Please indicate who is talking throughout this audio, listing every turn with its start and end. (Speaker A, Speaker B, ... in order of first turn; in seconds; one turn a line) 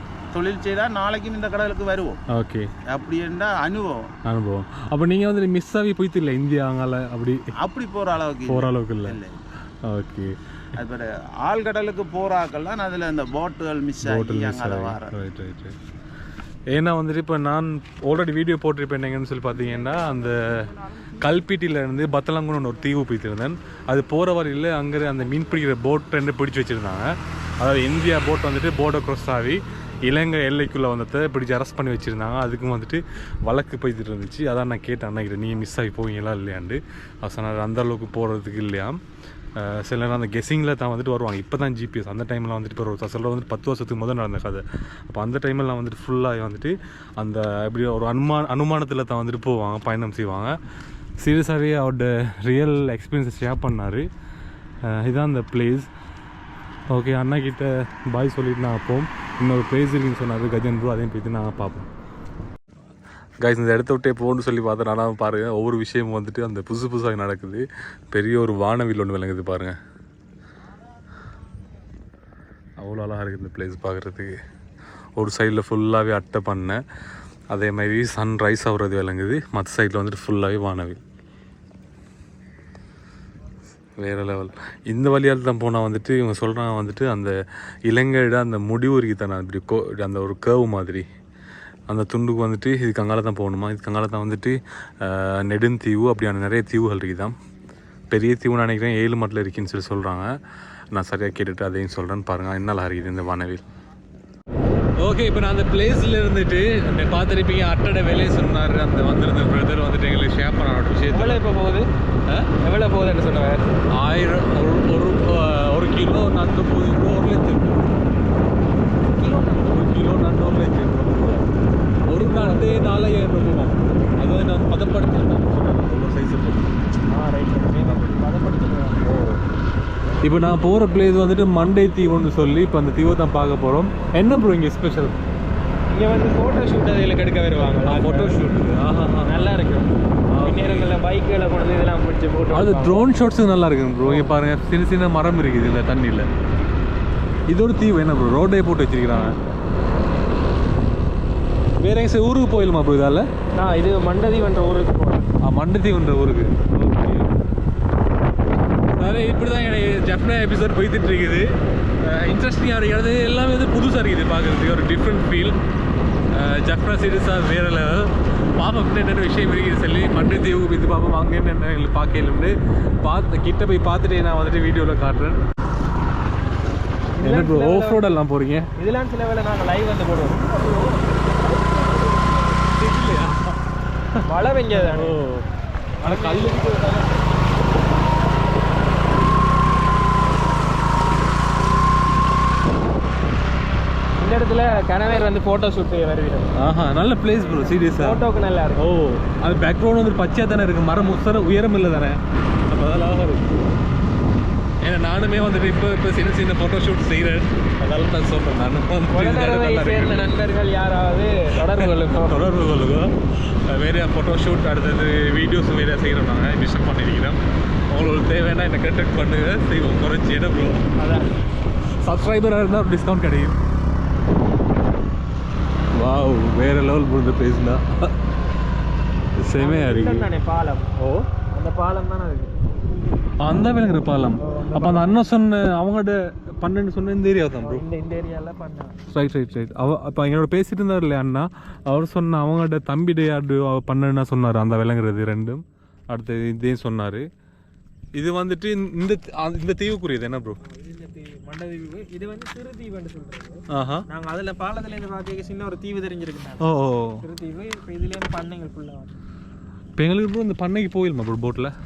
Speaker A: 0.3-2.2
Speaker B: 2.3-2.7
Speaker A: 2.9-4.0
Speaker B: 4.2-7.5
Speaker A: 7.6-9.4
Speaker B: 8.5-9.2
Speaker B: 9.8-10.4
Speaker A: 10.8-15.2
Speaker B: 14.0-15.8
Speaker B: 16.7-39.0
Speaker B: 39.5-50.5
Speaker B: 51.2-54.1
Speaker B: 54.8-55.9
Speaker B: 56.9-61.9
Speaker B: 63.4-69.7
Speaker B: 72.8-74.4
Speaker B: 75.2-76.8
Speaker B: 77.5-81.0
Speaker B: 84.0-87.3
Speaker B: 87.9-91.0
Speaker B: 91.9-97.3
Speaker B: 98.1-100.3
Speaker B: 100.9-103.6
Speaker B: 105.0-111.4
Speaker C: 111.1-111.8
Speaker C: 112.6-113.6
Speaker B: 113.9-118.0
Speaker C: 119.2-119.8
Speaker B: 119.6-121.5
Speaker B: 122.1-126.8
Speaker C: 122.1-122.9
Speaker C: 127.1-129.1
Speaker B: 129.0-129.4
Speaker B: 130.2-135.2
Speaker C: 135.9-138.4
Speaker B: 137.8-139.5
Speaker C: 139.2-143.0
Speaker B: 140.3-140.9
Speaker B: 142.5-146.3
Speaker C: 144.1-144.3
Speaker B: 147.5-149.4
Speaker B: 151.8-153.3
Speaker C: 153.6-155.3
Speaker B: 155.4-157.3
Speaker B: 159.0-165.6
Speaker B: 166.3-175.4
Speaker C: 177.2-178.1
Speaker B: 177.2-178.7
Speaker C: 178.8-182.6
Speaker B: 182.7-185.5
Speaker C: 184.2-185.2
Speaker B: 186.0-187.0
Speaker C: 186.0-187.1
Speaker C: 194.2-196.5
Speaker B: 196.6-198.2
Speaker C: 197.3-198.8
Speaker B: 198.8-203.7
Speaker B: 204.8-210.3
Speaker C: 209.1-212.4
Speaker B: 211.6-220.8
Speaker C: 220.9-221.3
Speaker B: 222.0-223.6
Speaker B: 225.9-228.2
Speaker B: 229.4-230.3
Speaker C: 229.6-230.9
Speaker B: 231.0-231.3
Speaker C: 231.5-232.5
Speaker B: 233.4-237.8
Speaker C: 234.4-235.2
Speaker C: 237.6-238.9
Speaker B: 239.1-247.2
Speaker B: 248.2-250.6
Speaker C: 250.6-256.6
Speaker B: 253.7-254.0
Speaker B: 256.6-257.2
Speaker C: 257.2-259.1
Speaker B: 260.0-261.7